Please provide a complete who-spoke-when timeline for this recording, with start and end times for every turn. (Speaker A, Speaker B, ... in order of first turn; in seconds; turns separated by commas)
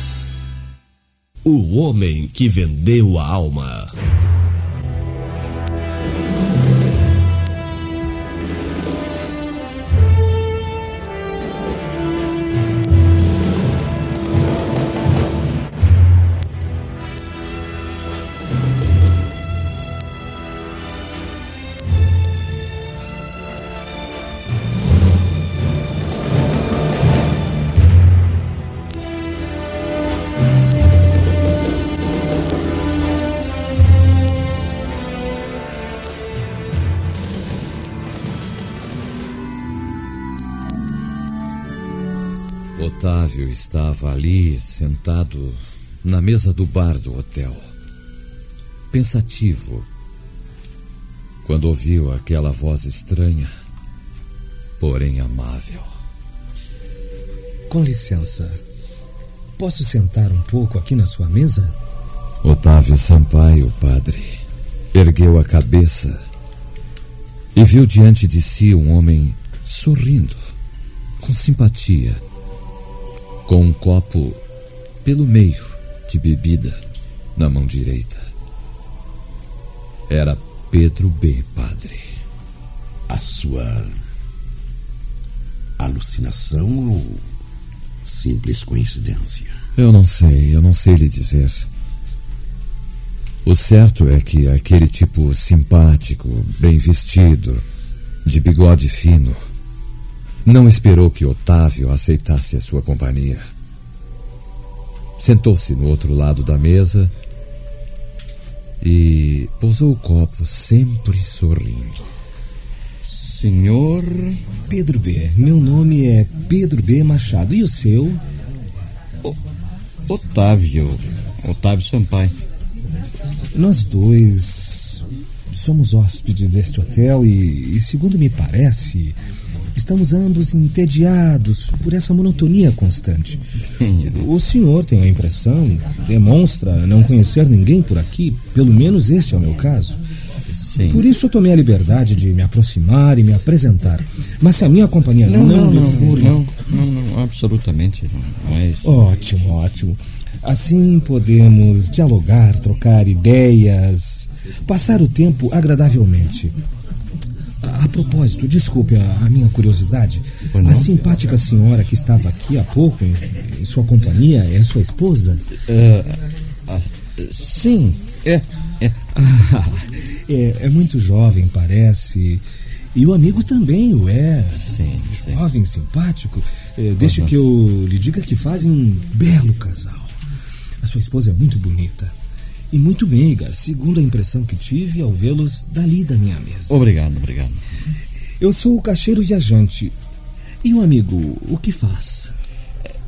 Speaker A: 1.4-3.9, Speaker B: 42.8-47.7, Speaker B: 48.9-49.9, Speaker B: 51.4-53.5, Speaker B: 54.8-55.9, Speaker C: 57.7-58.6, Speaker C: 59.6-61.8, Speaker B: 62.4-64.4, Speaker B: 64.9-66.2, Speaker B: 67.5-70.4, Speaker B: 71.2-72.2, Speaker B: 73.5-74.4, Speaker B: 75.0-76.8, Speaker B: 77.3-78.3, Speaker B: 80.1-82.2, Speaker D: 83.1-84.0, Speaker D: 85.8-87.2, Speaker D: 88.0-89.6, Speaker B: 89.8-91.7, Speaker B: 93.4-97.6, Speaker B: 98.2-99.4, Speaker B: 100.4-103.5, Speaker B: 105.2-107.1, Speaker B: 108.8-112.1, Speaker E: 113.1-114.4, Speaker C: 114.7-118.2, Speaker E: 120.1-122.3, Speaker C: 123.5-129.2, Speaker C: 129.8-133.4, Speaker E: 133.8-134.2, Speaker C: 134.0-140.0, Speaker E: 140.7-141.0, Speaker C: 140.8-146.5, Speaker E: 145.2-148.9, Speaker C: 148.8-156.6, Speaker C: 157.6-165.4, Speaker E: 160.5-160.9, Speaker E: 165.7-169.0, Speaker C: 169.1-172.4, Speaker C: 172.9-180.1, Speaker E: 174.7-175.4, Speaker E: 177.0-177.3, Speaker C: 180.8-182.1, Speaker C: 182.7-186.8, Speaker E: 186.7-187.6, Speaker C: 188.4-189.9, Speaker C: 190.6-192.3